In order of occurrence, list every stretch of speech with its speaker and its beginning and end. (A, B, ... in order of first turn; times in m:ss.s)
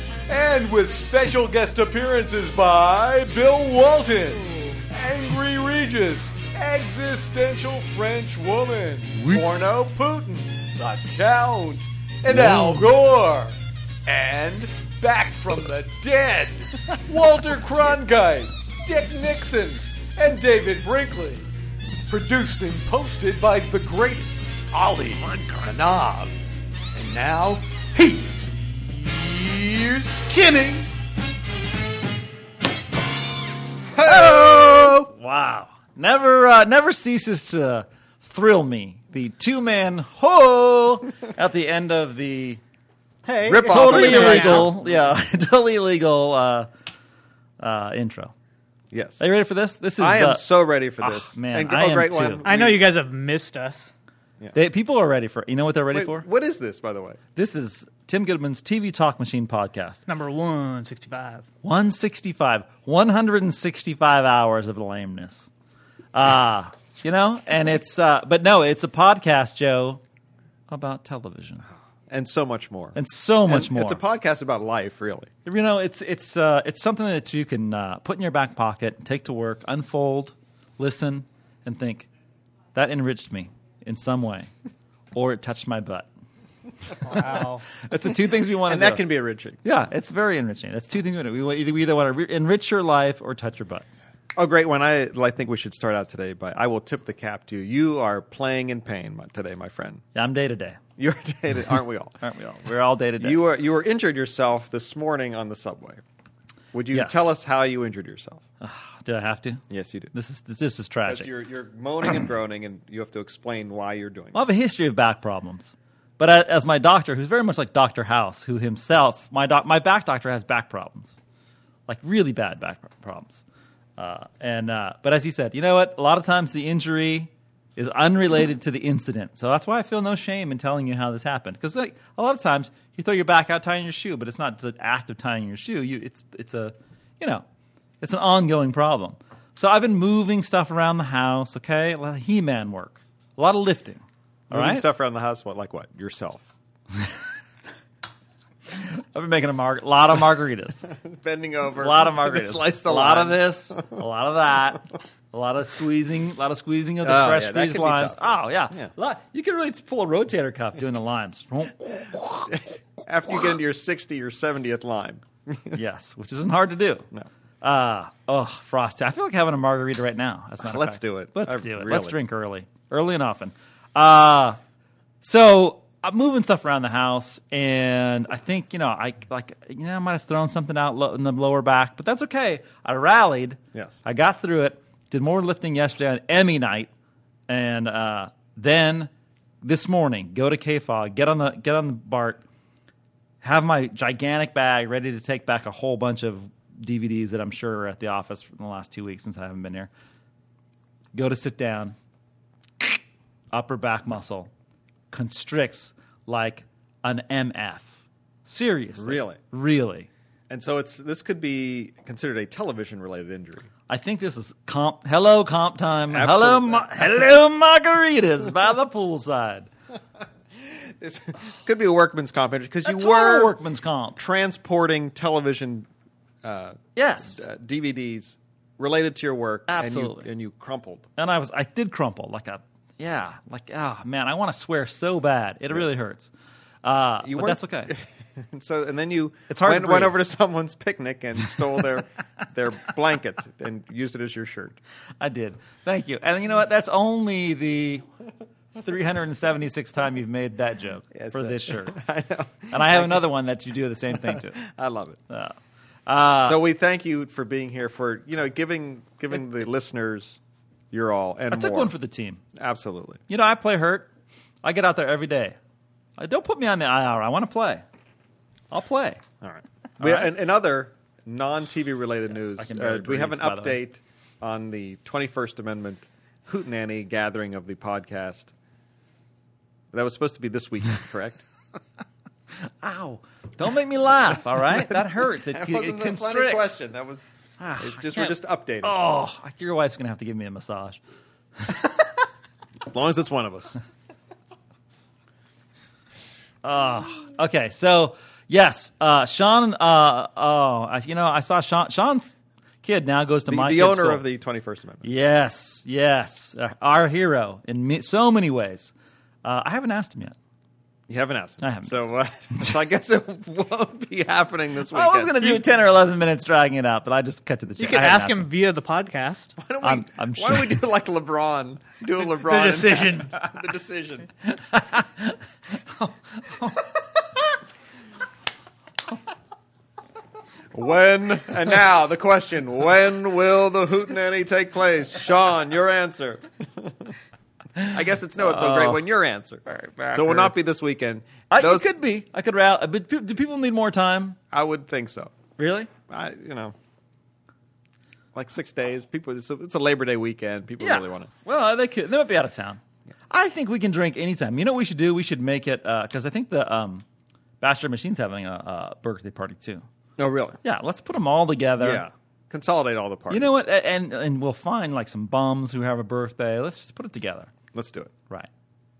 0:00.3-0:21.5 A
0:12.3-0:12.8 B
0:22.1-0:30.9 A
0:34.0-0:35.0 C
0:34.0-0:42.6 B
0:43.2-0:44.7 D
0:43.4-0:45.1 C
0:43.6-0:46.7 B
0:47.6-0:48.3 B
0:48.9-0:49.3 C
0:49.2-0:50.5 B
0:50.0-0:52.8 C
0:51.0-0:52.4 B
0:52.4-0:53.9 D
0:54.5-0:56.3 B
0:55.9-0:57.2 C
0:57.4-1:00.0 B
1:00.1-1:01.5 D
1:01.6-1:05.4 B
1:06.1-1:10.0 B
1:10.7-1:11.7 B
1:12.1-1:15.3 C
1:13.0-1:14.0 B
1:15.4-1:22.1 B
1:22.8-1:24.5 B
1:25.2-1:26.1 B
1:27.0-1:27.6 D
1:27.1-1:29.1 B
1:28.7-1:29.6 C
1:29.6-1:33.8 B
1:34.4-1:40.0 C
1:40.2-1:40.8 B
1:41.0-1:42.2 C
1:42.2-1:43.4 B
1:43.2-1:46.0 C
1:46.7-1:48.4 C
1:46.9-1:47.3 B
1:48.6-1:51.3 B
1:49.7-1:50.1 C
1:51.0-1:54.4 C
1:54.3-2:01.2 B
2:01.9-2:03.4 B
2:04.0-2:17.4 B
2:18.0-2:24.8 B
2:24.5-2:26.4 C
2:28.7-2:30.9 B
2:30.9-2:34.0 C
2:31.8-2:42.6 B
2:37.0-2:38.9 C
2:42.5-2:45.8 C
2:45.7-2:47.1 B
2:47.6-2:54.6 B
2:50.6-2:52.2 C
2:55.2-3:06.9 B
3:03.7-3:04.0 C
3:07.5-3:09.1 B
3:09.6-3:12.4 B
3:13.4-3:19.9 B
3:21.1-3:22.0 B
3:23.5-3:24.5 B
3:25.1-3:30.1 B
3:29.0-3:29.4 C
3:30.5-3:33.7 C
3:33.9-3:39.7 B
3:36.1-3:37.2 C
3:40.6-3:43.6 C
3:42.8-3:44.2 B
3:44.2-3:45.9 C
3:46.4-3:51.1 C
3:47.0-3:47.4 B
3:49.7-3:50.3 B
3:51.2-3:56.3 B
3:56.8-3:57.9 B
3:57.2-4:04.8 C
3:59.5-4:00.2 B
4:05.2-4:08.0 B
4:08.8-4:12.0 B
4:11.1-4:13.3 C
4:12.7-4:14.6 B
4:14.1-4:15.2 C
4:15.3-4:15.6 B
4:16.1-4:16.6 B
4:16.4-4:20.4 C
4:20.9-4:21.9 C
4:21.5-4:22.4 B
4:22.6-4:23.2 C
4:23.3-4:24.1 B
4:24.6-4:25.6 B
4:26.2-4:27.8 B
4:28.7-4:29.2 B
4:29.4-4:38.5 C
4:30.0-4:30.3 B
4:32.5-4:33.8 B
4:39.9-4:41.4 C
4:42.8-4:46.8 B
4:44.7-4:47.2 C
4:47.6-4:51.0 B
4:47.8-4:49.0 C
4:52.9-4:53.8 C
4:56.6-5:04.2 B
5:03.5-5:05.1 C
5:05.0-5:08.9 B
5:09.4-5:10.4 B
5:11.1-5:15.7 C
5:11.6-5:12.1 B
5:14.9-5:18.5 B
5:17.8-5:19.6 D
5:19.6-5:24.3 C
5:19.8-5:20.8 B
5:22.2-5:23.4 D
5:24.7-5:25.1 B
5:26.0-5:26.8 B
5:30.7-5:37.1 C
5:37.9-5:41.9 C
5:38.4-5:39.0 B
5:40.1-5:40.5 B
5:41.5-5:44.4 B
5:44.5-5:45.4 C
5:45.6-5:45.9 B
5:46.1-5:46.8 C
5:48.3-5:51.3 C
5:50.8-5:57.0 B
5:57.6-5:59.8 B
6:00.2-6:00.6 C
6:00.6-6:02.1 B
6:01.8-6:03.6 C
6:03.3-6:07.5 B
6:07.7-6:08.2 C